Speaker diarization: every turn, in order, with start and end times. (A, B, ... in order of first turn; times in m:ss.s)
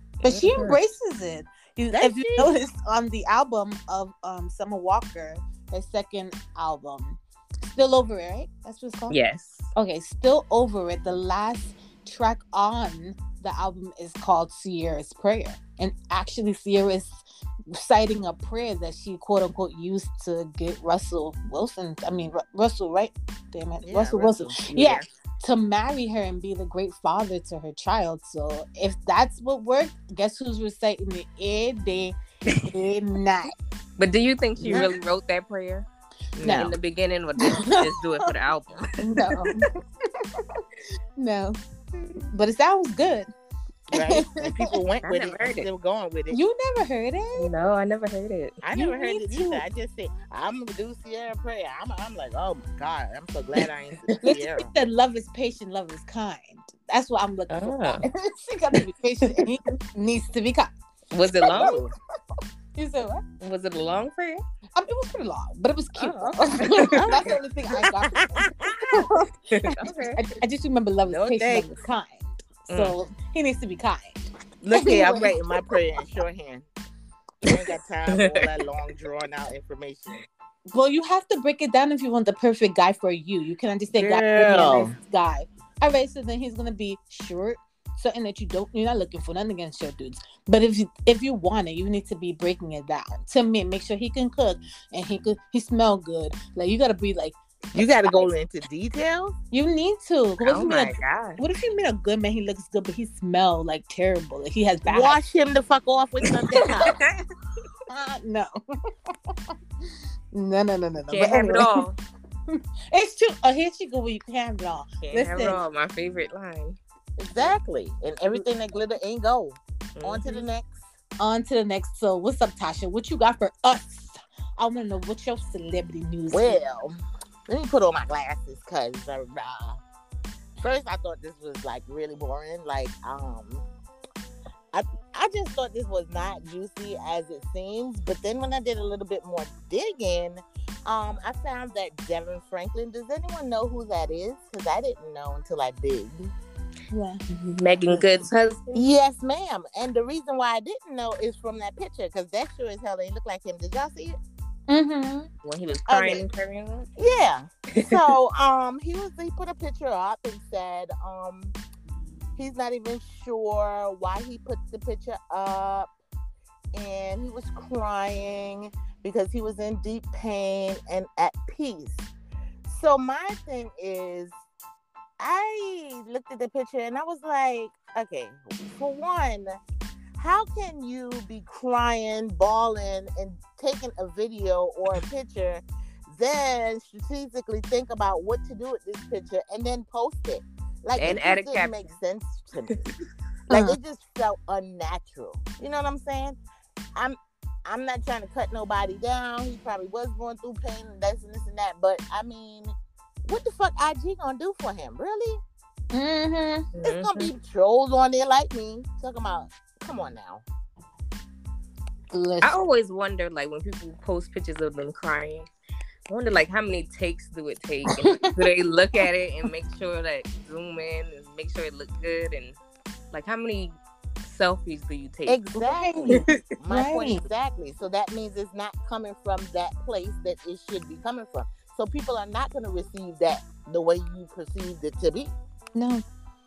0:00.2-0:09.2 A
0:00.2-0:00.8 B
0:01.9-0:02.5 C
0:09.1-0:09.7 B
0:09.7-0:17.2 A
0:17.7-0:33.5 A
0:23.8-0:24.6 C
0:24.7-0:25.0 B
0:34.0-0:35.9 B
0:34.6-0:34.9 A
0:34.6-0:34.9 C
0:36.4-0:36.7 C
0:36.4-0:36.7 A
0:36.5-0:39.6 B
0:37.4-0:38.3 A
0:39.0-0:40.6 A
0:41.2-0:41.6 A
0:42.3-0:43.3 A
0:43.9-0:46.4 C
0:43.9-0:44.8 A
0:45.0-0:45.7 B
0:46.3-0:47.5 A
0:47.4-0:48.6 B
0:48.6-0:54.7 C
0:48.7-0:49.6 A
0:54.2-1:00.7 A
0:57.5-0:58.0 B
1:01.1-1:01.8 B
1:01.5-1:01.7 A
1:01.5-1:01.9 C
1:02.8-1:03.2 A
1:03.4-1:04.4 B
1:04.8-1:15.6 A
1:06.0-1:07.2 B
1:06.9-1:09.1 C
1:09.5-1:10.2 B
1:11.0-1:11.7 C
1:12.7-1:13.0 B
1:14.6-1:16.7 C
1:17.4-1:20.2 C
1:18.1-1:18.5 B
1:20.7-1:37.4 A
1:23.9-1:24.9 C
1:37.7-1:39.3 C
1:39.5-1:45.2 A
1:40.4-1:41.4 B
1:44.9-1:46.9 C
1:46.2-1:47.1 B
1:47.9-1:48.5 A
1:50.3-1:51.8 A
1:51.1-1:52.0 B
1:52.5-1:55.6 A
1:55.0-1:56.8 B
1:57.2-2:00.8 C
2:00.0-2:00.4 B
2:01.2-2:06.6 A
2:06.3-2:09.8 C
2:10.6-2:13.7 C
2:14.7-2:26.3 C
2:26.9-2:27.2 A
2:27.3-2:28.8 B
2:28.7-2:34.2 C
2:34.7-2:35.3 A
2:35.4-2:36.9 B
2:35.9-2:36.2 C
2:37.0-2:41.6 C
2:37.7-2:38.0 B
2:42.4-2:45.9 C
2:46.7-2:52.1 C
2:52.6-2:54.4 C
2:55.2-2:59.6 C
3:00.2-3:12.8 C
3:11.0-3:11.8 B
3:13.5-3:16.4 C
3:13.5-3:13.8 A
3:17.0-3:25.4 C
3:25.9-3:26.6 A
3:26.8-3:27.3 B
3:26.8-3:30.4 C
3:32.1-3:32.5 A
3:32.4-3:35.5 B
3:36.1-3:42.6 B
3:37.9-3:38.4 A
3:43.1-3:45.4 B
3:45.3-3:55.3 C
3:45.5-3:47.2 A
3:55.7-3:56.0 A